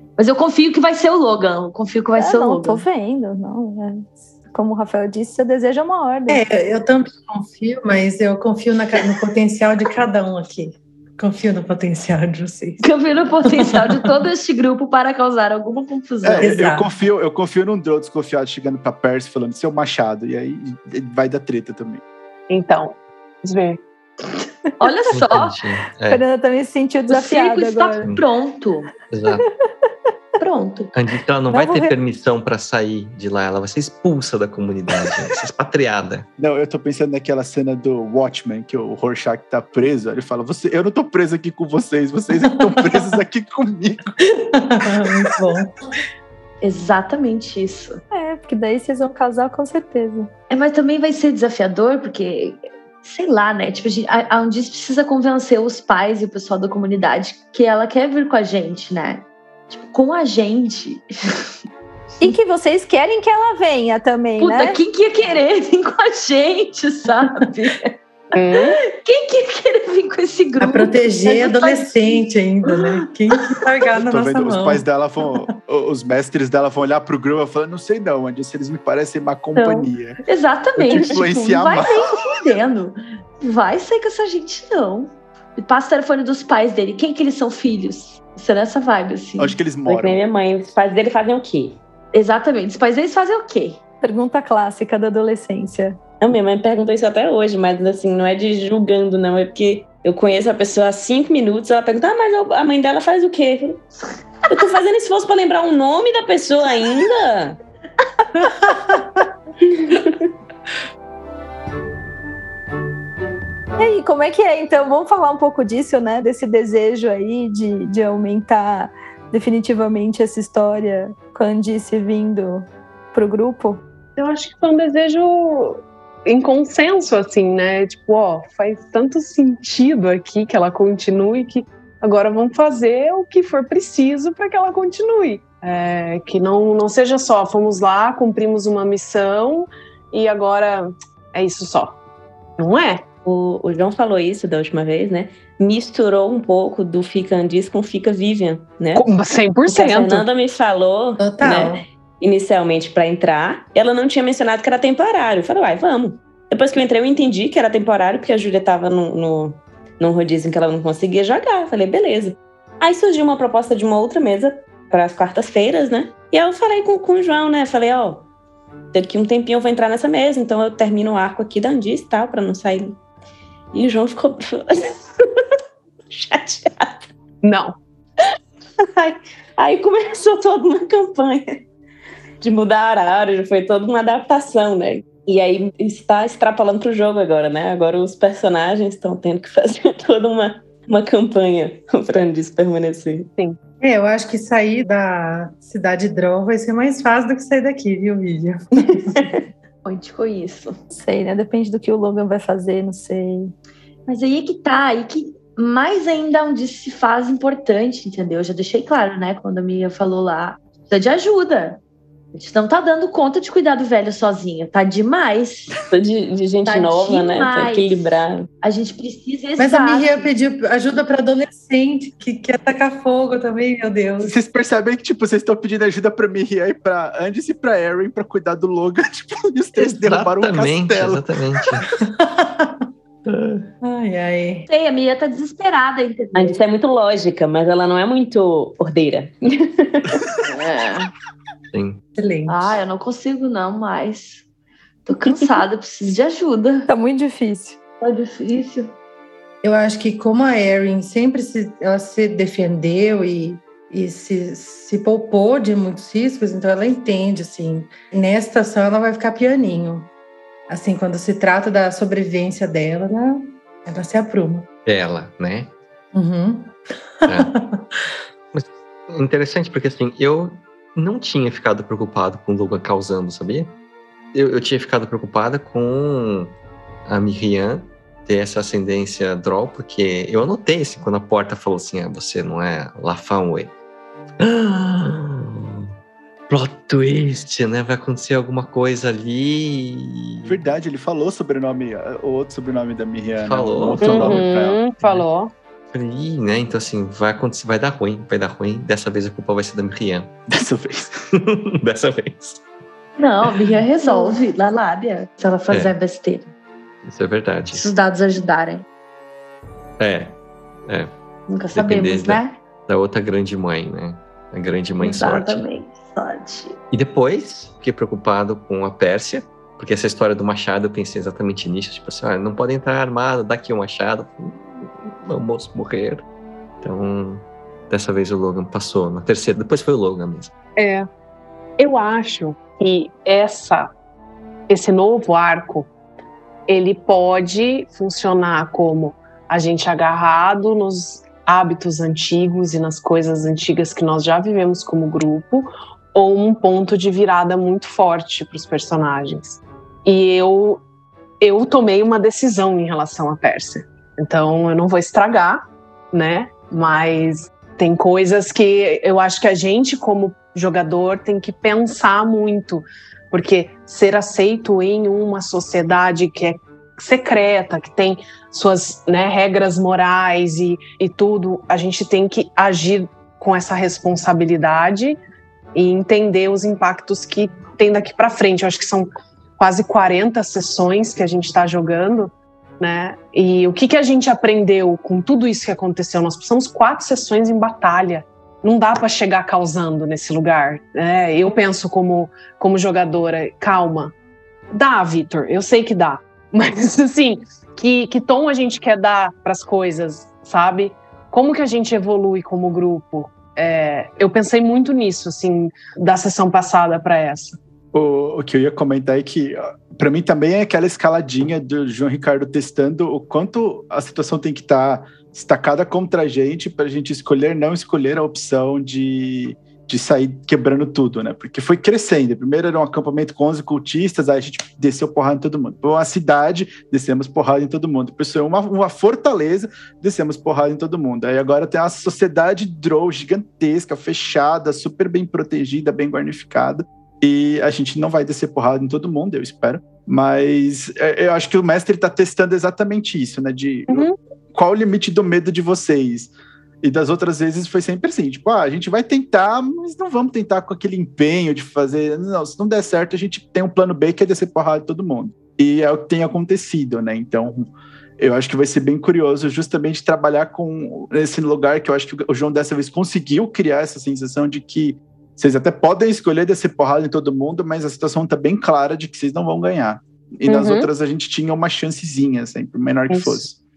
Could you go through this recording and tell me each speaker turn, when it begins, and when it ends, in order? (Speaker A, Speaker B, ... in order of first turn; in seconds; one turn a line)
Speaker A: 0.2-2.8
Speaker B: 2.1-6.4
Speaker C: 6.3-12.8
Speaker A: 12.8-16.5
Speaker C: 13.4-14.1
Speaker D: 16.2-22.0
Speaker C: 16.4-16.9
Speaker E: 22.5-23.8
Speaker A: 24.8-25.6
Speaker F: 25.1-26.2
Speaker B: 26.1-28.1
Speaker A: 27.1-28.9
Speaker F: 29.1-29.4
Speaker A: 30.4-30.9
Speaker F: 30.9-36.3
Speaker B: 31.5-31.9
Speaker D: 36.4-44.2
Speaker C: 44.3-45.7
Speaker A: 46.6-48.0
Speaker B: 48.1-50.3
Speaker A: 50.5-61.5
Speaker B: 62.2-64.8
Speaker A: 64.4-67.9
Speaker E: 68.3-68.8
Speaker A: 68.5-72.9
Speaker C: 70.6-74.8
Speaker D: 74.0-80.2
Speaker A: 79.5-89.6
Speaker D: 80.8-82.1
Speaker D: 89.4-90.2
Speaker G: 89.8-91.8
Speaker A: 92.1-93.8
Speaker B: 94.0-96.0
Speaker G: 96.2-103.8
Speaker G: 104.5-107.6
Speaker G: 109.6-110.3
Speaker B: 113.8-123.8
Speaker E: 124.2-142.0
Speaker E: 142.6-143.0
Speaker G: 143.2-149.1
Speaker E: 148.9-150.3
Speaker G: 149.6-168.2
Speaker C: 151.2-151.8
Speaker G: 168.9-173.0
Speaker G: 173.7-175.1
Speaker G: 176.1-177.1
Speaker E: 177.4-177.8
Speaker G: 178.8-181.6
Speaker G: 182.4-193.3
Speaker C: 193.8-199.3
Speaker G: 198.9-199.4
Speaker A: 199.8-200.8
Speaker B: 200.9-203.5
Speaker A: 204.1-211.8
Speaker A: 212.3-215.9
Speaker G: 215.9-218.5
Speaker A: 216.6-220.3
Speaker C: 219.6-224.3
Speaker D: 224.2-231.2
Speaker F: 229.8-231.8
Speaker C: 231.9-232.8
Speaker F: 233.2-233.7
Speaker C: 233.8-234.7
Speaker A: 234.7-236.6
Speaker G: 236.3-240.2
Speaker A: 240.4-241.1
Speaker F: 241.7-242.0
Speaker C: 242.2-242.7
Speaker A: 242.5-244.4
Speaker A: 245.1-246.9
Speaker B: 246.9-247.8
Speaker A: 248.0-248.9
Speaker C: 249.6-260.1
Speaker C: 260.7-264.7
Speaker F: 264.9-265.7
Speaker C: 266.1-267.8
Speaker F: 267.2-267.5
Speaker F: 268.5-273.7
Speaker F: 274.3-276.5
Speaker F: 277.1-283.7
Speaker F: 284.4-285.9
Speaker F: 286.5-290.6
Speaker D: 290.4-294.8
Speaker F: 293.4-294.4
Speaker E: 294.0-295.5
Speaker F: 295.9-300.3
Speaker D: 300.5-301.2
Speaker F: 301.3-302.6
Speaker A: 303.2-306.5
Speaker F: 307.0-307.9
Speaker A: 307.7-308.8
Speaker F: 310.0-311.1
Speaker A: 311.5-312.6
Speaker F: 311.7-315.6
Speaker A: 315.0-316.8
Speaker F: 316.9-326.2
Speaker F: 326.8-330.5
Speaker E: 330.8-331.1
Speaker E: 331.8-333.9
Speaker E: 334.7-335.9
Speaker E: 336.7-350.8
Speaker E: 351.4-375.2
Speaker E: 375.7-394.1
Speaker E: 394.7-407.6
Speaker D: 407.9-446.3
Speaker E: 443.9-444.1
Speaker D: 446.8-473.5
Speaker E: 470.5-470.9
Speaker E: 473.1-473.5